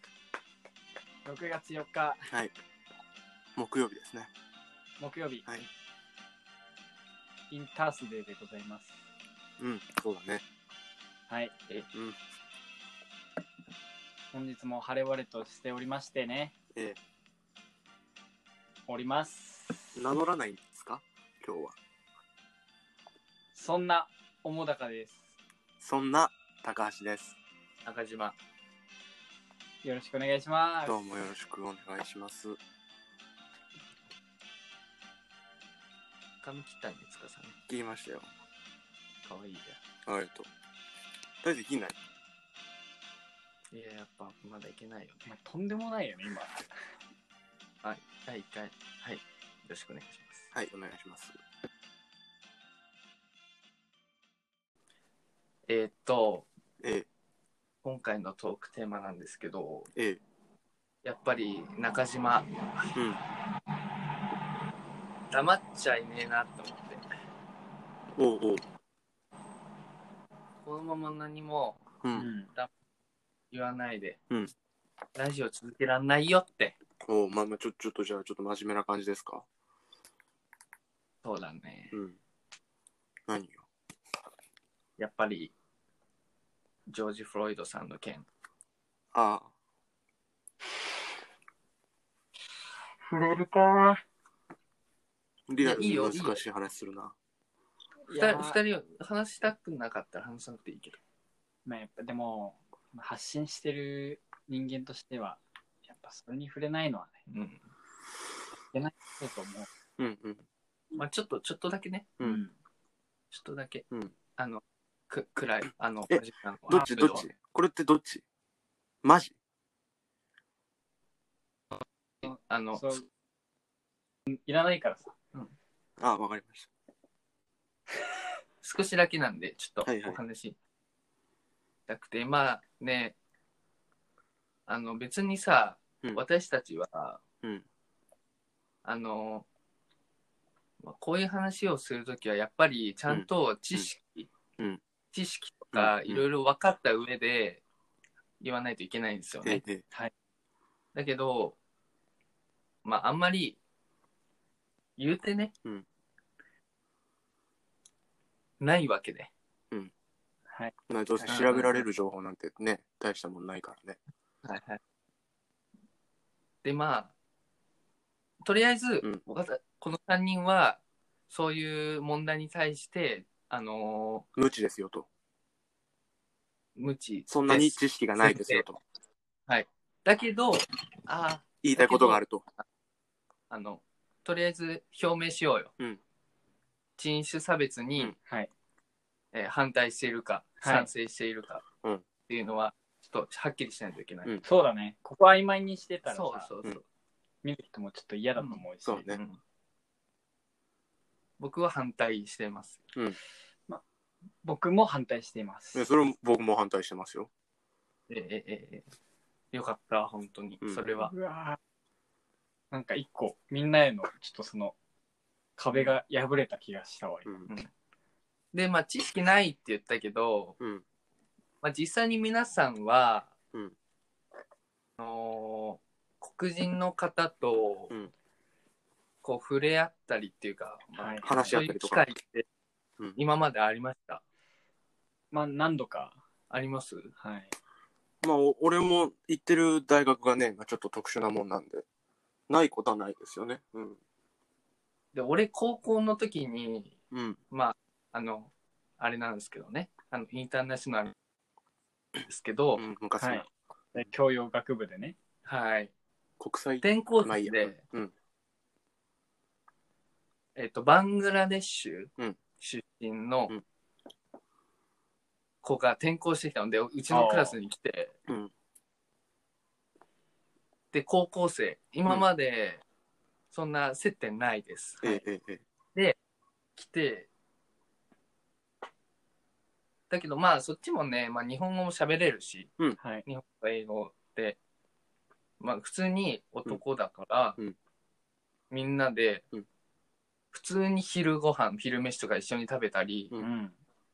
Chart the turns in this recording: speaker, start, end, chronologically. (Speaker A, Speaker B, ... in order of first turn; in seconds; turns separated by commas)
Speaker A: 1.2-2.3, Speaker B: 3.5-4.3, Speaker A: 5.0-5.5, Speaker A: 7.5-8.9, Speaker B: 9.6-10.4, Speaker A: 11.3-11.5, Speaker A: 14.3-16.5, Speaker A: 18.9-20.0, Speaker B: 19.9-21.7, Speaker A: 23.5-25.3, Speaker B: 25.8-27.4, Speaker C: 27.8-28.4, Speaker A: 29.8-31.1, Speaker B: 30.9-32.6, Speaker C: 36.4-37.5, Speaker B: 37.7-38.3, Speaker C: 39.2-39.8, Speaker B: 40.0-40.5, Speaker B: 41.4-42.0, Speaker C: 43.7-45.2, Speaker A: 45.2-46.7, Speaker C: 47.8-50.5, Speaker B: 50.5-51.4, Speaker C: 55.7-56.5, Speaker B: 56.8-57.1, Speaker C: 57.8-59.9, Speaker B: 59.9-60.2, Speaker C: 61.0-62.9, Speaker B: 62.9-63.2, Speaker C: 65.3-67.0, Speaker B: 68.2-68.6, Speaker C: 70.6-71.8, Speaker B: 72.0-72.3, Speaker A: 72.2-72.5, Speaker C: 73.5-74.2, Speaker C: 75.2-76.8, Speaker B: 77.0-79.5, Speaker C: 81.2-82.0, Speaker B: 81.9-82.2, Speaker B: 83.3-83.6, Speaker C: 85.0-85.5, Speaker C: 86.9-88.2, Speaker B: 89.1-89.5, Speaker A: 93.1-94.0, Speaker B: 95.5-97.1, Speaker C: 95.6-96.4, Speaker A: 98.1-98.6, Speaker C: 98.1-101.0, Speaker A: 101.7-107.1, Speaker C: 107.3-107.6, Speaker A: 108.7-109.7, Speaker B: 110.0-110.4, Speaker C: 110.9-112.1, Speaker A: 112.2-112.5, Speaker C: 113.3-113.8, Speaker C: 114.4-117.2, Speaker B: 116.1-118.2, Speaker A: 116.7-117.3, Speaker B: 119.0-119.3, Speaker C: 122.2-122.8, Speaker A: 122.7-123.0, Speaker A: 124.3-125.1, Speaker B: 126.0-126.7, Speaker C: 128.6-130.6, Speaker B: 129.8-130.2, Speaker C: 131.9-133.2, Speaker C: 134.7-137.2, Speaker C: 138.8-139.4, Speaker C: 140.8-144.3, Speaker B: 143.1-143.9, Speaker C: 145.1-147.6, Speaker B: 145.7-146.2, Speaker C: 148.4-149.6, Speaker B: 149.4-149.8, Speaker C: 150.9-151.6, Speaker C: 152.8-153.6, Speaker C: 155.0-155.5, Speaker C: 158.6-159.3, Speaker B: 160.9-164.0, Speaker C: 161.2-161.8, Speaker C: 164.4-164.8, Speaker C: 166.6-167.1, Speaker C: 168.4-174.3, Speaker B: 174.3-175.1, Speaker C: 176.8-178.6, Speaker B: 177.3-178.8, Speaker C: 179.5-182.2, Speaker B: 181.6-182.4, Speaker C: 183.5-185.7, Speaker C: 187.0-188.1, Speaker C: 189.3-191.7, Speaker A: 190.6-190.9, Speaker C: 192.3-194.3, Speaker A: 194.4-196.5, Speaker C: 196.0-196.8, Speaker A: 197.4-199.1, Speaker C: 198.4-199.4, Speaker B: 198.8-199.2, Speaker C: 201.4-202.8, Speaker A: 204.4-205.9, Speaker B: 205.7-207.3, Speaker C: 208.1-208.8, Speaker C: 209.5-211.1, Speaker A: 210.9-211.6, Speaker A: 212.7-214.7, Speaker A: 215.6-217.3, Speaker C: 218.5-220.6, Speaker C: 221.6-223.3, Speaker C: 225.0-227.9, Speaker C: 229.2-232.4, Speaker A: 231.0-231.6, Speaker B: 231.2-232.0, Speaker C: 233.2-234.2, Speaker A: 235.3-236.2, Speaker C: 236.5-237.1, Speaker A: 237.2-237.5, Speaker B: 238.2-241.8, Speaker B: 242.5-244.0, Speaker C: 245.1-247.0, Speaker B: 247.1-247.4, Speaker C: 247.5-251.1, Speaker C: 252.2-252.8, Speaker B: 252.8-253.5, Speaker A: 253.2-255.2, Speaker C: 255.4-255.9, Speaker B: 256.4-258.1, Speaker C: 256.8-257.8, Speaker C: 260.6-263.5, Speaker C: 265.6-268.1, Speaker A: 267.1-267.5, Speaker C: 270.9-272.8, Speaker C: 273.5-275.2, Speaker B: 275.0-275.6, Speaker C: 276.8-277.3, Speaker C: 280.1-282.7, Speaker C: 283.2-284.6, Speaker C: 285.6-287.6, Speaker C: 288.7-289.4, Speaker C: 290.5-293.3, Speaker A: 293.4-293.7